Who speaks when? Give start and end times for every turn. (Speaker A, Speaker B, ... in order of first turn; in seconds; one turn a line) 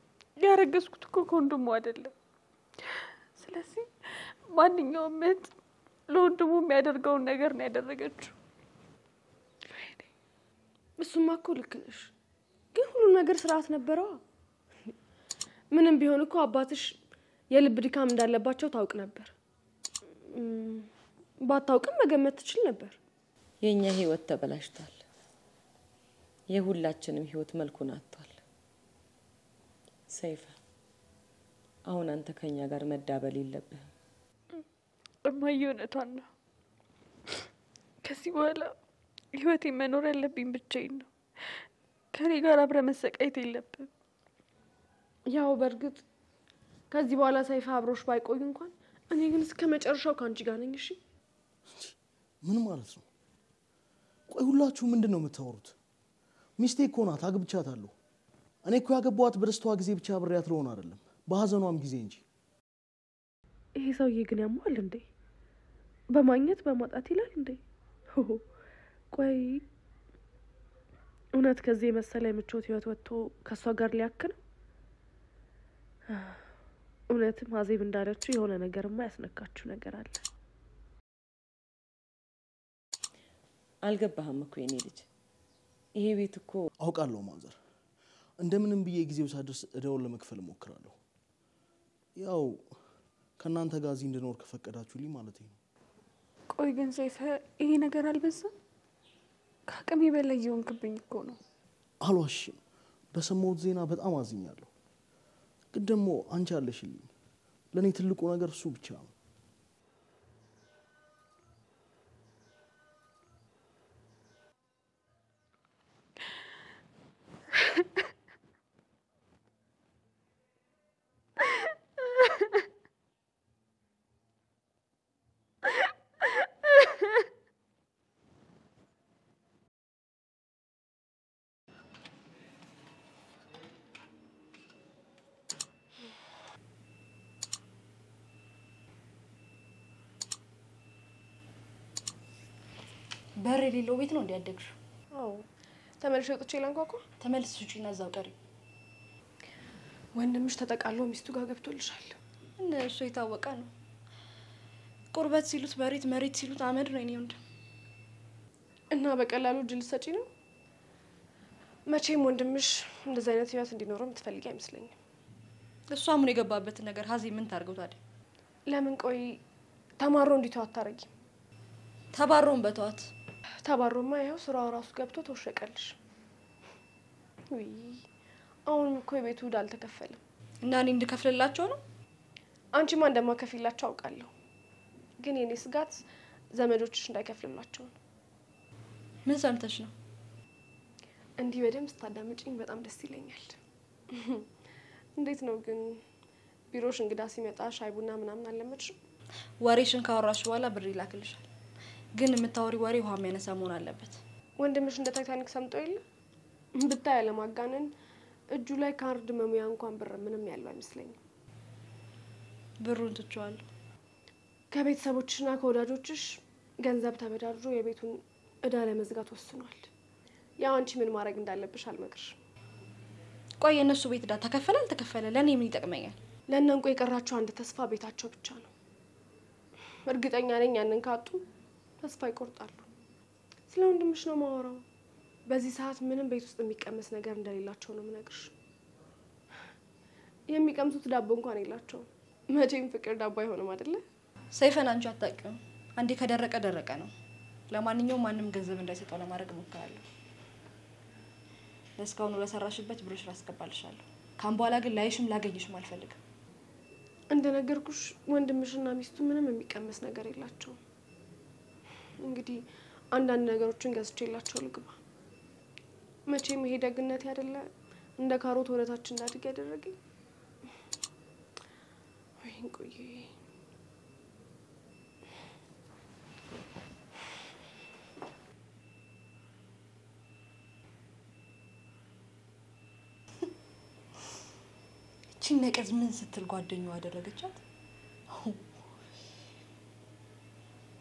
Speaker A: 0.4-2.1
Speaker A: 2.9-5.5
Speaker A: 6.1-8.4
Speaker A: 9.7-10.1
Speaker B: 11.0-12.1
Speaker B: 12.7-14.2
Speaker B: 15.7-17.0
Speaker B: 17.5-19.3
Speaker B: 20.3-20.9
Speaker B: 21.4-23.0
Speaker C: 23.6-25.0
Speaker C: 26.5-28.4
Speaker C: 30.1-30.6
Speaker C: 31.9-33.9
Speaker A: 35.2-36.3
Speaker A: 38.0-38.8
Speaker A: 39.3-41.6
Speaker A: 42.1-43.9
Speaker B: 45.3-46.0
Speaker B: 46.9-51.0
Speaker D: 51.7-53.1
Speaker D: 54.3-55.8
Speaker D: 56.6-57.9
Speaker D: 58.6-62.2
Speaker B: 63.8-65.0
Speaker B: 66.1-67.6
Speaker B: 68.1-68.4
Speaker B: 69.1-69.6
Speaker B: 71.3-74.4
Speaker B: 76.1-76.4
Speaker B: 77.1-80.2
Speaker C: 83.8-85.1
Speaker C: 86.0-86.7
Speaker D: 86.8-87.6
Speaker D: 88.4-91.0
Speaker D: 92.2-92.7
Speaker D: 93.4-95.6
Speaker A: 96.5-98.5
Speaker A: 99.7-101.4
Speaker D: 102.0-102.6
Speaker D: 103.1-104.7
Speaker D: 105.7-107.1
Speaker D: 107.7-109.1
Speaker E: 143.4-144.8
Speaker B: 145.1-145.4
Speaker B: 146.0-147.1
Speaker E: 147.2-148.4
Speaker B: 150.2-152.2
Speaker E: 152.6-153.7
Speaker E: 155.1-157.4
Speaker B: 158.9-160.3
Speaker B: 161.9-164.9
Speaker E: 165.9-168.0
Speaker B: 168.7-169.4
Speaker B: 170.0-171.1
Speaker E: 172.1-173.1
Speaker B: 173.6-176.0
Speaker B: 177.5-178.1
Speaker B: 178.7-180.2
Speaker E: 180.6-181.8
Speaker B: 182.7-184.3
Speaker B: 185.2-187.9
Speaker E: 189.3-189.9
Speaker B: 191.4-193.6
Speaker B: 194.1-194.5
Speaker B: 195.2-196.0
Speaker B: 196.7-199.0
Speaker E: 199.6-201.4
Speaker E: 202.2-204.2
Speaker B: 204.6-206.0
Speaker B: 206.8-207.9
Speaker B: 208.5-211.2
Speaker E: 212.8-213.7
Speaker B: 214.7-219.9
Speaker B: 220.6-222.4
Speaker E: 223.6-226.2
Speaker B: 226.5-228.7
Speaker B: 230.1-231.4
Speaker B: 232.0-232.9
Speaker B: 233.7-234.8
Speaker B: 235.5-238.5
Speaker B: 240.5-244.0
Speaker E: 244.5-247.1
Speaker E: 247.7-250.0
Speaker E: 252.0-256.2
Speaker B: 257.3-260.8
Speaker B: 262.2-265.0
Speaker B: 266.3-270.0
Speaker B: 272.4-273.3
Speaker E: 285.4-287.6
Speaker E: 288.3-288.6